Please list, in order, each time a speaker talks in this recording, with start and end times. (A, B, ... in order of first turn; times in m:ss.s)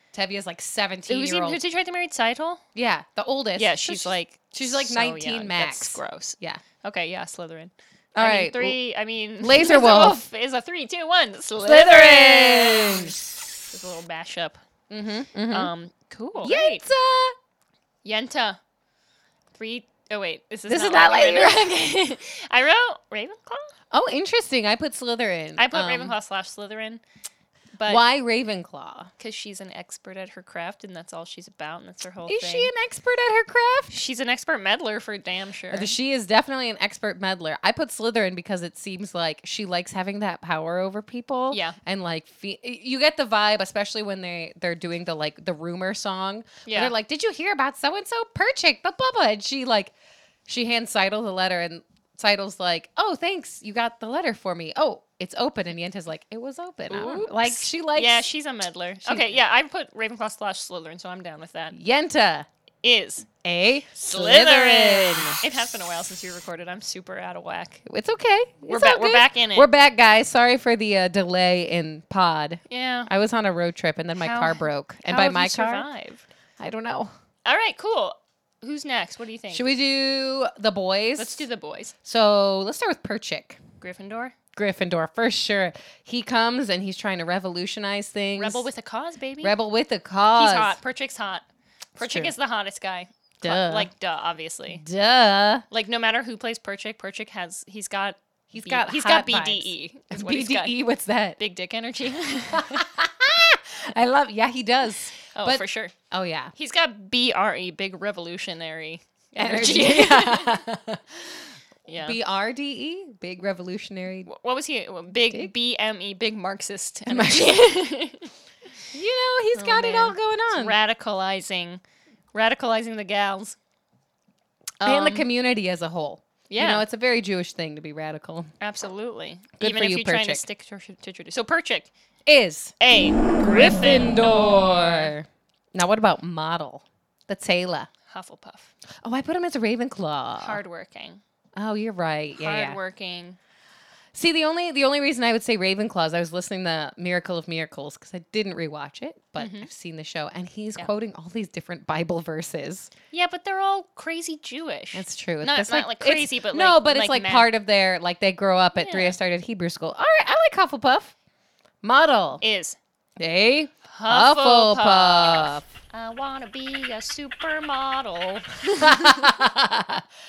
0:00.1-0:01.6 A
0:01.1-0:02.6 B
0:02.7-0:06.6 A
0:03.6-0:13.2 B
0:08.1-0:08.8 A
0:09.4-0:10.2 A
0:11.6-0:13.2 A
0:13.7-0:14.6 B
0:14.9-0:15.7 A
0:15.5-0:16.8 B
0:16.4-0:17.4 A
0:18.0-0:18.6 B
0:19.5-0:23.7 B
0:20.7-0:21.9 A
0:23.9-0:26.1 A
0:25.6-0:27.0 B
0:27.8-0:28.0 B
0:27.8-0:29.1 A
0:29.2-0:32.7 B
0:32.3-0:33.9 A
0:33.9-0:36.0 B
0:35.7-0:49.9 A
0:41.5-0:41.8 B
0:46.6-0:46.9 B
0:50.5-0:58.2 A
0:56.9-1:01.7 B
0:59.0-0:59.4 A
1:01.7-1:02.5 A
1:02.8-1:03.3 B
1:03.4-1:05.4 A
1:04.0-1:07.8 B
1:07.8-1:15.9 A
1:08.7-1:09.7 B
1:12.7-1:13.1 B
1:14.2-1:16.2 B
1:16.6-1:17.1 A
1:17.4-1:19.7 B
1:19.5-1:21.4 A
1:21.2-1:21.9 B
1:22.0-1:23.6 A
1:23.8-1:24.3 B
1:24.5-1:28.7 A
1:28.4-1:29.5 B
1:29.4-1:30.8 A
1:30.3-1:31.4 B
1:32.0-1:34.8 B
1:32.0-1:32.3 A
1:33.4-1:33.9 A
1:34.7-1:35.6 A
1:35.7-1:40.8 B
1:38.5-1:41.4 A
1:41.4-1:42.9 B
1:42.5-1:46.5 A
1:45.3-1:45.9 B
1:46.5-1:50.6 B
1:49.4-1:54.3 A
1:51.9-1:52.2 B
1:54.2-1:58.3 B
1:57.1-1:57.6 A
1:58.9-2:00.8 A
1:59.5-2:01.8 B
2:02.3-2:03.6 B
2:04.8-2:05.3 B
2:04.8-2:08.5 A
2:06.5-2:06.8 B
2:08.6-2:11.9 B
2:09.6-2:10.4 A
2:12.2-2:12.7 A
2:12.8-2:15.1 B
2:13.3-2:17.9 A
2:18.1-2:18.7 B
2:19.0-2:20.6 A
2:20.4-2:21.2 B
2:21.6-2:22.8 A
2:22.3-2:23.4 B
2:24.1-2:32.9 A
2:29.4-2:29.7 B
2:33.1-2:37.5 B
2:34.9-2:41.1 A
2:38.7-2:39.2 B
2:41.8-2:42.4 A
2:42.4-2:42.8 B
2:43.2-2:45.6 A
2:43.9-2:49.3 B
2:48.7-2:50.1 A